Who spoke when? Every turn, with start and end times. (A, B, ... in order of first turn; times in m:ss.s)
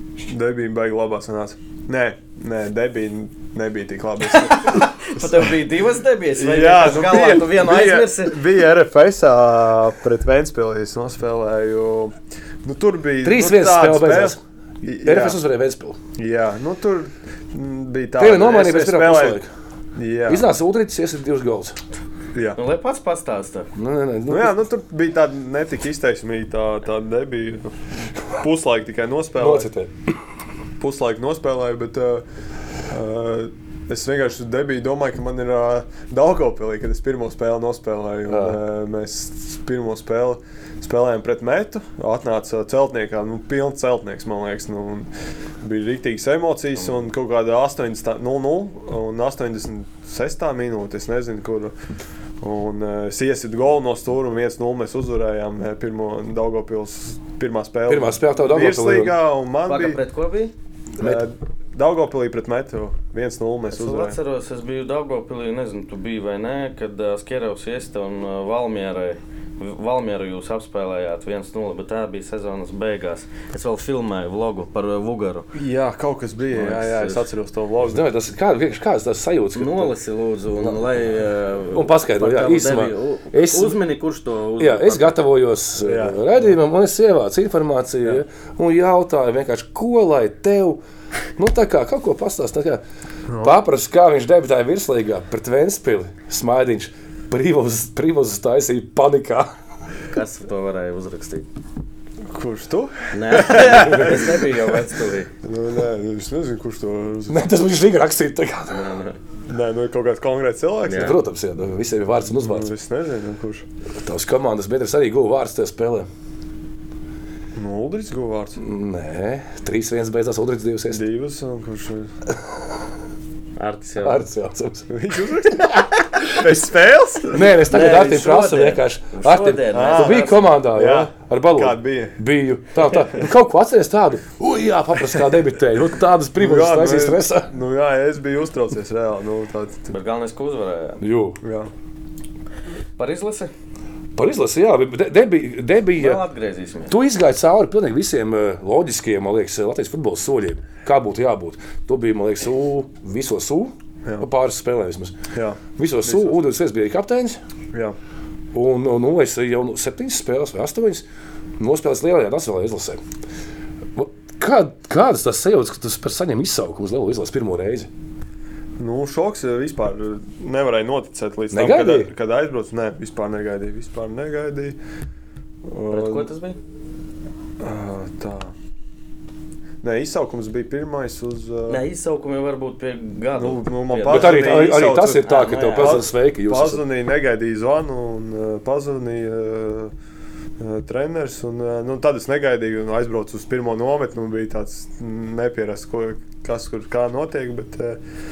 0:00.2-0:05.4 A
0:04.3-0:08.4 B
0:06.4-0:15.4 A
0:13.2-0:14.4 C
0:15.0-0:16.0 C
0:16.2-0:19.4 A
0:18.2-0:19.5 C
0:20.0-0:20.5 A
0:20.3-0:21.8 C
0:22.3-0:22.6 A
0:22.6-0:23.7 B
0:23.8-0:24.5 C
0:24.3-0:29.7 A
0:29.4-0:30.1 C
0:30.8-0:32.2 A
0:32.9-0:45.1 A
0:38.3-0:38.6 C
0:45.6-0:51.7 A
0:52.4-1:00.0 A
0:57.9-0:59.2 C
0:59.7-1:00.5 B
1:01.0-1:04.2 A
1:03.7-1:15.5 B
1:15.5-1:18.0 A
1:16.5-1:17.3 B
1:17.8-1:19.9 C
1:19.6-1:25.2 B
1:21.7-1:23.8 C
1:24.6-1:30.8 C
1:25.8-1:26.6 A
1:31.4-1:32.8 C
1:33.3-1:33.6 A
1:33.4-1:39.5 C
1:40.1-1:41.5 B
1:42.3-1:44.6 A
1:43.1-1:45.3 B
1:45.4-1:47.5 A
1:47.3-1:48.9 C
1:48.7-1:49.2 B
1:49.5-1:51.2 A
1:50.8-1:51.2 B
1:50.9-1:52.7 C
1:52.3-1:53.7 A
1:54.0-1:56.1 C
1:57.6-1:58.6 A
1:58.6-2:01.0 C
2:00.9-2:02.1 A
2:03.6-2:04.3 B
2:04.0-2:04.9 C
2:04.9-2:07.6 A
2:07.3-2:17.5 C
2:07.6-2:10.5 B
2:09.7-2:12.2 A
2:16.4-2:19.9 A
2:19.9-2:21.0 B
2:21.0-2:21.4 C
2:21.4-2:21.7 A
2:23.0-2:23.5 B
2:24.2-2:26.2 C
2:26.0-2:26.9 B
2:26.9-2:35.2 C
2:35.3-2:36.4 A
2:35.8-2:37.4 C
2:38.5-2:41.0 C
2:41.6-2:43.0 C
2:44.0-2:47.9 C
2:48.8-2:54.8 A
2:51.5-2:52.1 C
2:55.6-2:56.3 A
2:55.9-2:56.6 B
2:57.6-2:58.5 A
2:59.8-3:01.8 A
3:01.7-3:06.1 B
3:03.4-3:09.9 A
3:04.1-3:06.8 C
3:10.6-3:18.0 A